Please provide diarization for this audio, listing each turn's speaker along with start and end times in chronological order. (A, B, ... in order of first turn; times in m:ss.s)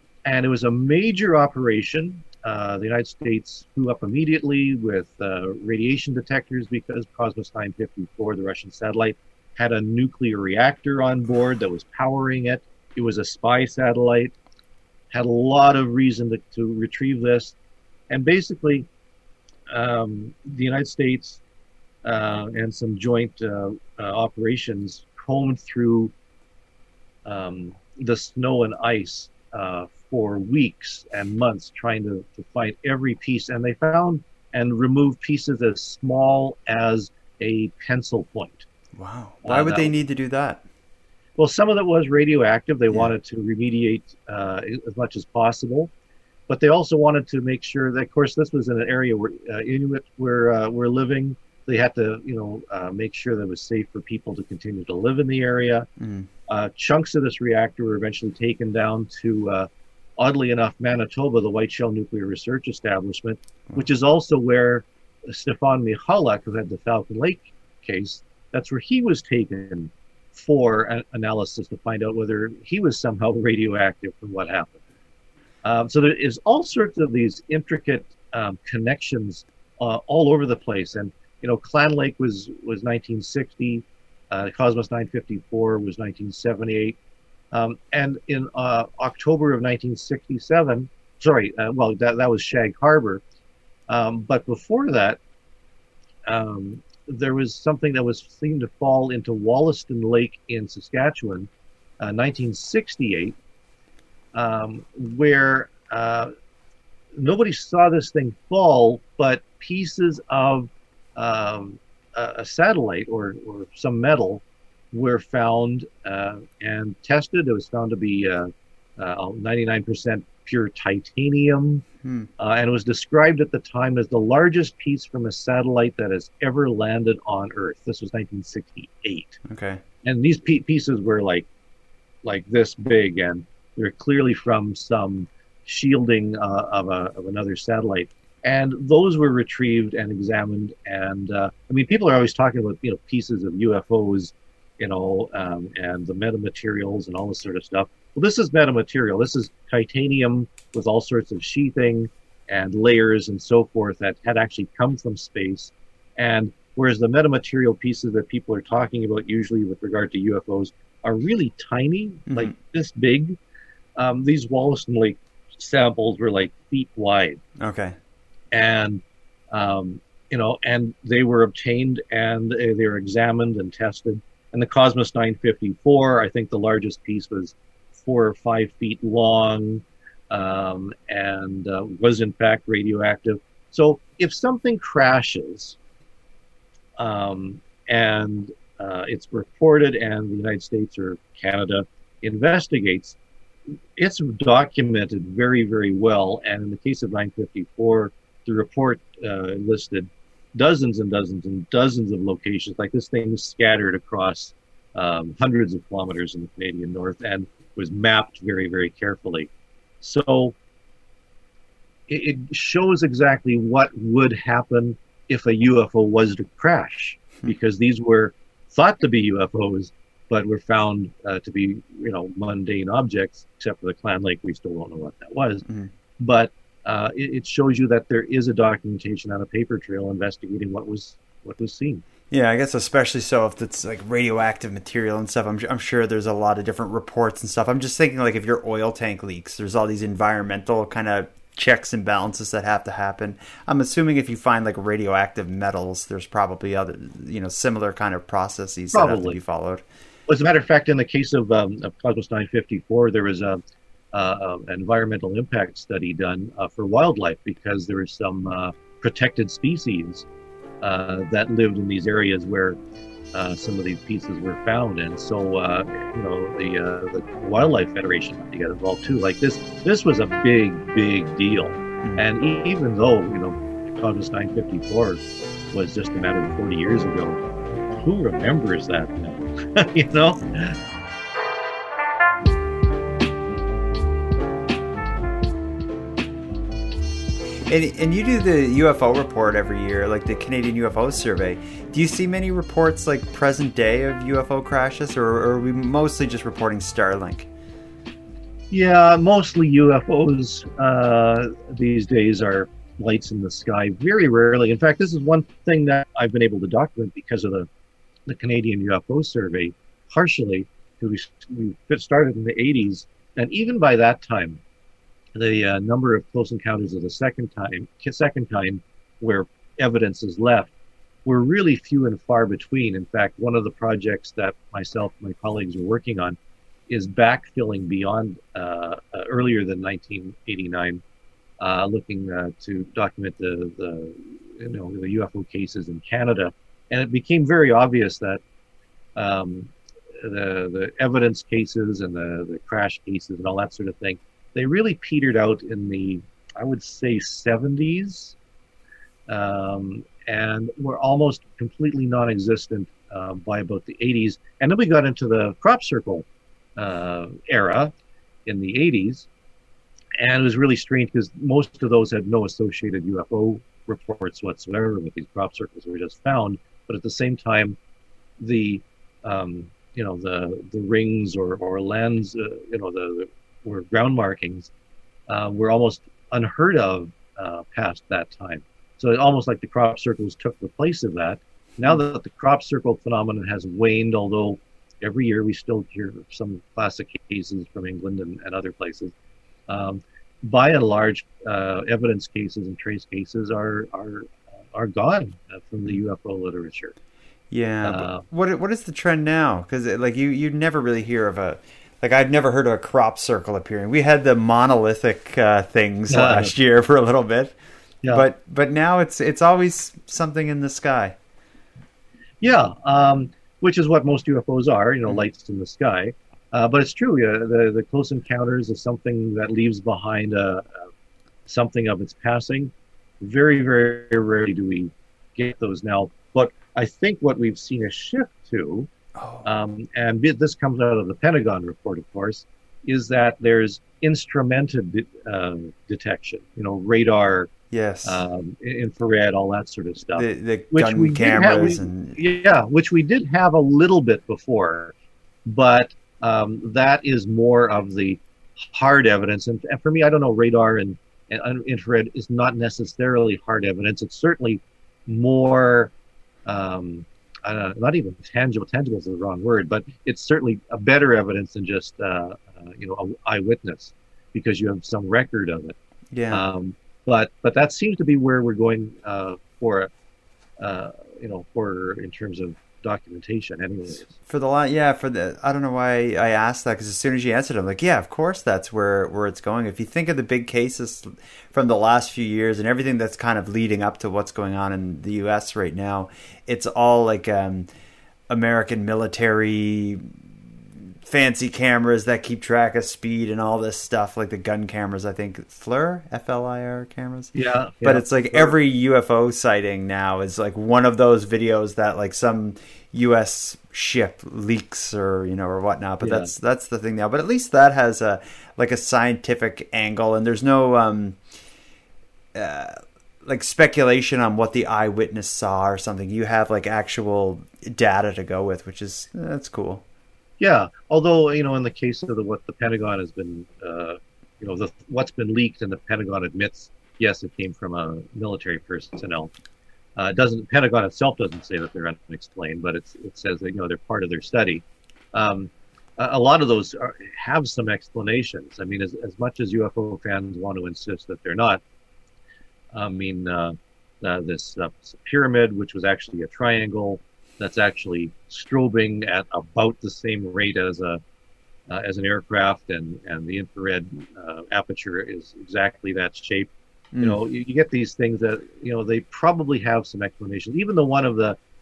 0:00.2-0:14.4 A
0:15.1-0:17.6 A
0:18.1-0:18.9 A
0:19.7-0:21.4 A
0:22.0-0:26.1 A
0:27.2-0:38.7 A
0:39.0-0:40.6 B
0:39.4-0:39.9 A
0:41.4-0:45.9 A
0:46.5-0:55.9 A
0:56.0-0:56.3 B
0:56.5-1:14.8 A
1:15.6-1:27.0 A
1:27.5-1:33.2 A
1:33.9-1:35.2 A
1:36.3-1:41.5 A
1:42.0-1:43.4 A
1:44.3-1:46.3 A
1:47.2-2:01.8 A
2:02.0-2:02.3 B
2:02.4-2:09.4 A
2:09.5-2:09.8 B
2:10.0-2:11.5 A
2:12.2-2:43.4 A
2:44.0-2:47.4 A
2:47.6-2:48.0 B
2:48.5-3:05.8 A
3:07.0-3:13.2 A
3:14.0-3:30.6 A
3:32.1-3:45.6 A
3:46.2-3:52.0 A
3:52.3-4:09.8 B
4:08.9-4:09.4 A
4:10.3-4:13.6 A
4:14.1-4:20.3 A
4:20.8-4:22.8 A
4:23.3-4:37.4 A
4:37.9-4:40.8 A
4:47.7-4:57.5 B
4:58.7-5:07.7 A
5:08.3-5:14.6 A
5:15.4-5:20.7 A
5:21.2-5:26.4 A
5:26.9-5:31.0 A
5:31.6-5:38.4 A
5:39.2-5:48.4 A
5:49.3-5:57.9 A
5:58.5-5:59.3 A
6:00.2-6:07.8 A
6:08.4-6:14.7 A
6:15.3-6:29.1 A
6:29.7-6:36.9 A
6:37.5-6:47.6 B
6:37.8-6:38.2 A
6:46.1-6:46.5 A
6:48.1-6:51.2 B
6:52.4-7:00.9 A
7:01.5-7:08.9 A
7:09.2-7:09.5 B
7:09.4-7:17.5 A
7:17.7-7:18.2 B
7:18.1-7:24.9 A
7:20.2-7:22.2 B
7:25.4-7:35.9 A
7:36.4-7:45.8 A
7:46.1-7:46.4 B
7:46.3-7:49.9 A
7:50.6-7:54.1 A
7:54.1-8:07.7 B
8:08.3-8:10.2 B
8:11.0-8:31.2 B
8:17.3-8:18.6 A
8:26.0-8:26.3 A
8:32.4-8:39.8 B
8:40.4-8:49.3 A
8:50.0-9:01.6 A
9:02.7-9:11.0 A
9:11.7-9:21.4 A
9:16.9-9:17.2 B